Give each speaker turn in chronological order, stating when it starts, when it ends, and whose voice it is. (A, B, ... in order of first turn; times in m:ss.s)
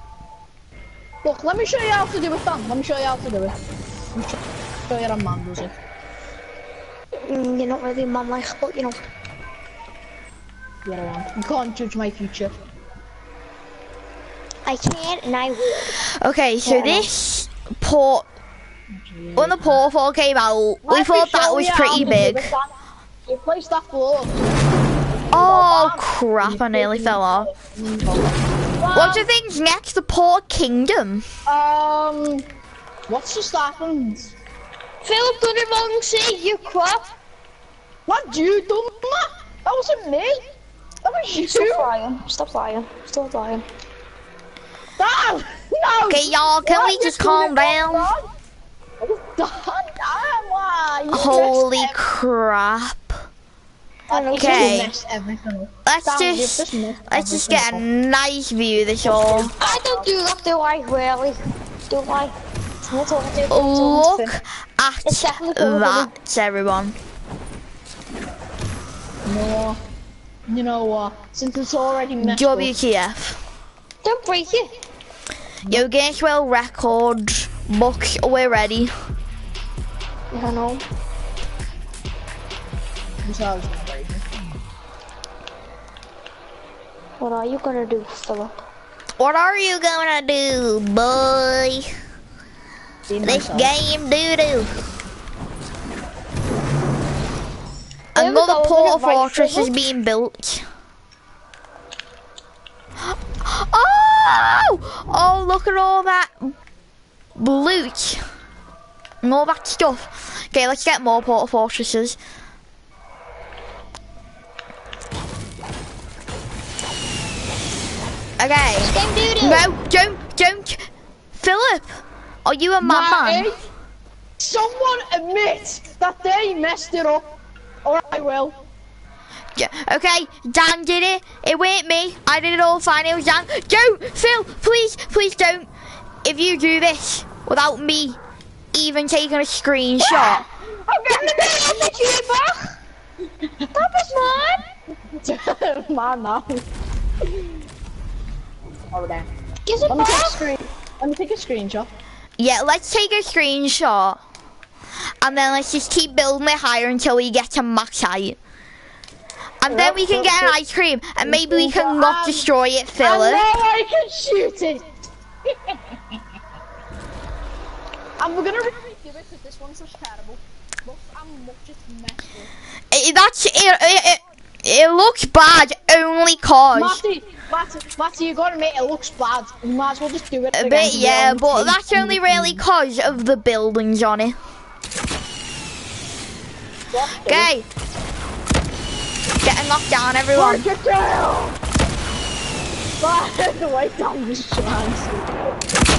0:01.2-0:03.6 A
0:04.1-0:05.8 A
0:07.3-0:09.0 B
0:10.8-0:12.6 A
0:14.6-0:16.0 B
0:16.2-0:18.3 C
0:16.6-0:17.1 B
0:18.9-0:19.8 A
0:19.4-0:22.5 C
0:20.8-0:22.7 A
0:23.3-0:24.4 A
0:25.3-0:28.3 A
0:25.3-0:27.5 C
0:28.8-0:29.3 A
0:28.9-0:31.2 C
0:31.5-0:32.4 A
0:33.1-0:34.3 A
0:35.0-0:37.1 B
0:38.1-0:40.4 A
0:41.0-0:41.9 A
0:41.4-0:43.6 B
0:45.0-0:48.3 A
0:46.1-0:48.1 C
0:49.0-0:52.0 A
0:51.1-0:53.2 C
0:54.1-0:54.8 B
0:54.1-0:57.8 A
0:54.4-0:54.9 C
0:55.9-0:59.5 C
0:59.0-1:00.1 A
0:59.6-1:04.4 B
1:03.5-1:07.0 C
1:05.0-1:06.1 B
1:09.3-1:09.8 A
1:10.5-1:12.8 A
1:12.2-1:13.4 C
1:14.0-1:14.7 B
1:15.7-1:18.9 C
1:20.3-1:20.8 B
1:23.2-1:24.2 A
1:27.2-1:28.6 B
1:29.2-1:31.9 C
1:33.1-1:33.7 A
1:33.2-1:34.7 C
1:38.2-1:39.7 B
1:38.2-1:40.6 C
1:43.4-1:46.5 C
1:47.4-1:48.2 C
1:49.2-1:52.2 C
1:58.4-2:03.5 C
1:58.8-1:59.7 B
2:02.8-2:03.6 A
2:04.4-2:07.2 A
2:07.8-2:08.6 A
2:09.6-2:15.7 C
2:16.2-2:18.2 C
2:18.7-2:20.4 C
2:20.0-2:20.4 B
2:20.9-2:22.7 B
2:21.1-2:21.8 A
2:23.7-2:24.6 B
2:25.2-2:26.6 A
2:28.9-2:29.3 A
2:29.7-2:30.4 B
2:29.9-2:31.9 A
2:32.4-2:34.2 C
2:35.2-2:38.4 C
2:39.6-2:43.5 C
2:39.7-2:40.6 A
2:41.2-2:42.5 A
2:43.0-2:44.9 A
2:45.4-2:46.2 A
2:48.2-2:52.5 A
2:52.9-2:57.0 C
2:56.7-3:02.6 A
3:00.6-3:04.4 C
3:06.9-3:07.5 A
3:07.2-3:07.7 C
3:09.4-3:10.6 C
3:10.3-3:11.6 A
3:13.0-3:15.4 A